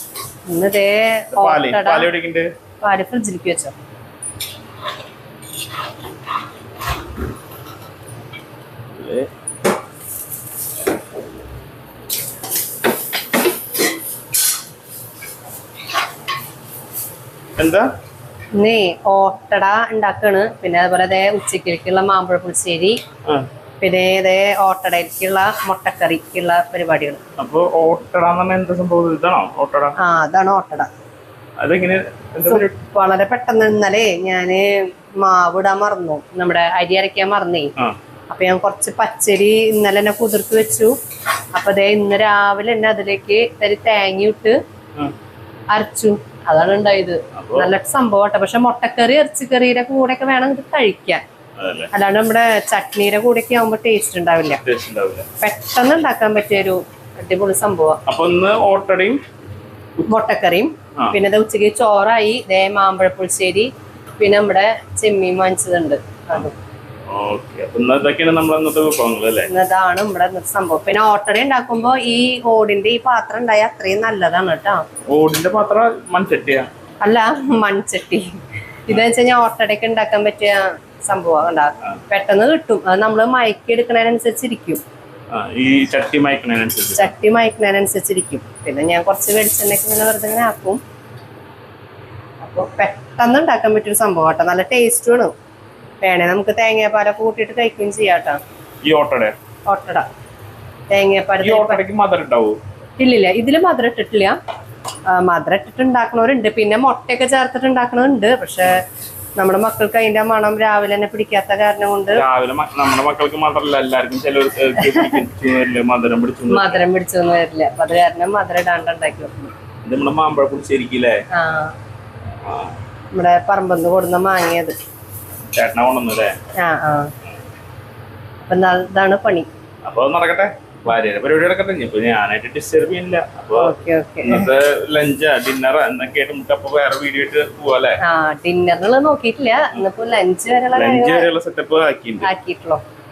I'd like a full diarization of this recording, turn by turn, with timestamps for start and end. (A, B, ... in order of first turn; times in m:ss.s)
0:00.5-0:02.1 A
0:01.3-0:02.5 B
0:02.8-0:03.8 A
0:09.0-0:09.3 B
0:17.6-0:17.9 B
0:18.6-0:23.0 A
0:23.8-0:27.2 A
0:27.4-0:30.0 B
0:30.0-0:30.9 A
0:31.6-0:32.7 B
0:32.5-0:37.7 A
0:38.3-0:40.9 A
0:41.6-0:44.6 A
0:45.7-0:51.2 A
0:47.3-0:47.7 B
0:51.6-0:51.9 B
0:51.9-0:54.6 A
0:54.6-0:55.3 B
0:55.4-0:58.0 A
0:58.1-0:59.2 B
1:00.1-1:06.6 A
1:07.1-1:09.5 B
1:09.5-1:14.8 A
1:15.1-1:16.7 B
1:17.0-1:24.8 A
1:25.3-1:27.1 B
1:27.0-1:30.8 A
1:32.4-1:35.3 A
1:36.0-1:38.4 A
1:38.8-1:39.4 B
1:39.7-1:40.1 A
1:40.9-1:41.8 A
1:41.4-1:42.6 B
1:43.0-1:44.4 A
1:45.1-1:48.8 A
1:49.4-1:52.2 A
1:52.2-1:56.8 B
1:56.5-1:59.5 A
1:59.8-2:01.2 B
2:01.3-2:01.7 A
2:02.4-2:02.8 B
2:03.2-2:04.8 A
2:05.5-2:06.4 B
2:06.6-2:07.1 A
2:08.5-2:09.5 A
2:09.8-2:18.0 B
2:13.6-2:14.5 A
2:18.0-2:21.3 A
2:20.7-2:22.3 B
2:22.2-2:22.8 A